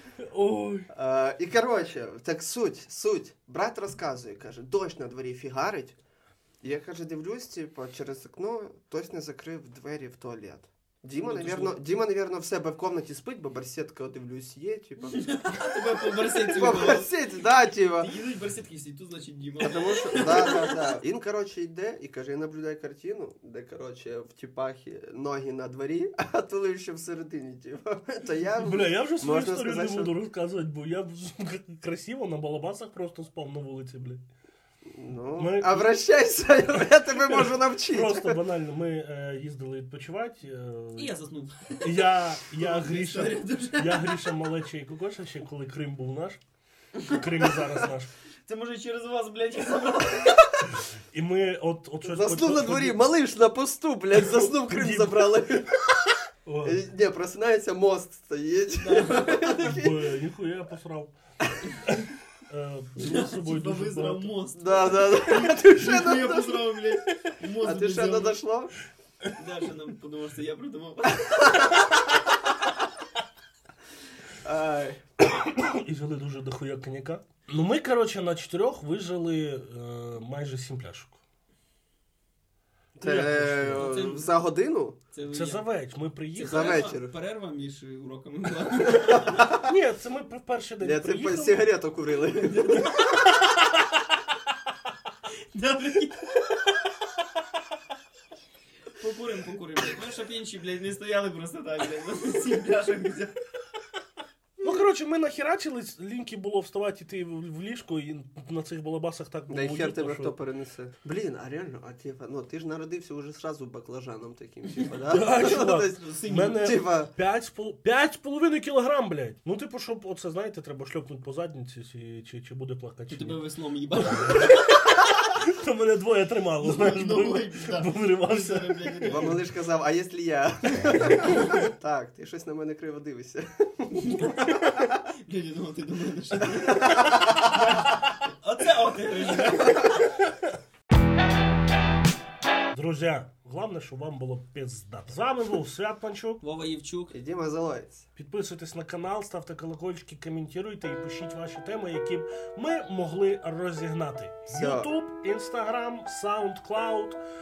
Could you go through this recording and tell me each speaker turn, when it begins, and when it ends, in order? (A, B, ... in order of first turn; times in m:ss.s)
0:00.2-0:00.9 A
0:00.9-0:06.0 B
0:06.6-0:15.2 B
0:11.2-0:11.8 C
0:15.0-0:17.1 C
0:16.5-0:18.1 B
0:18.0-0:20.8 C
0:19.6-0:30.1 B
0:28.6-0:34.2 A
0:34.9-0:38.4 B
0:35.4-0:35.9 A
0:37.2-0:41.1 A
0:41.0-0:44.2 C
0:41.8-0:46.4 A
0:47.0-0:47.5 C
0:47.0-0:48.1 A
0:48.4-0:50.5 C
0:50.7-0:53.1 A
0:52.0-0:55.7 B
0:54.1-0:55.4 A
0:56.4-0:56.8 A
0:56.6-1:00.1 B
0:58.7-0:59.6 C
0:59.6-1:01.1 A
1:02.5-1:04.3 A
1:03.0-1:08.4 C
1:04.5-1:06.6 B
1:07.6-1:08.7 B
1:09.4-1:11.9 C
1:14.4-1:15.0 B
1:15.2-1:21.2 A
1:23.0-1:23.9 A
1:23.0-1:25.0 B
1:23.7-1:24.4 C
1:25.1-1:25.6 C
1:25.3-1:26.8 A
1:26.3-1:29.5 C
1:26.4-1:27.1 B
1:29.1-1:29.6 B
1:29.4-1:31.6 A
1:30.8-1:33.0 B
1:32.4-1:33.2 C
1:35.5-1:36.4 C
1:39.0-1:43.4 C
1:44.6-1:50.3 A
1:49.5-1:57.1 B
1:55.1-2:03.4 A
1:56.0-1:56.7 C
2:03.1-2:05.0 C
2:04.0-2:04.6 A
2:05.3-2:09.3 A
2:06.6-2:09.4 C
2:09.1-2:14.9 B
2:13.9-2:20.1 C
2:16.4-2:17.3 B
2:22.7-2:26.4 A
2:26.4-2:27.1 C
2:27.1-2:28.1 B
2:28.2-2:37.2 A
2:34.5-2:34.9 B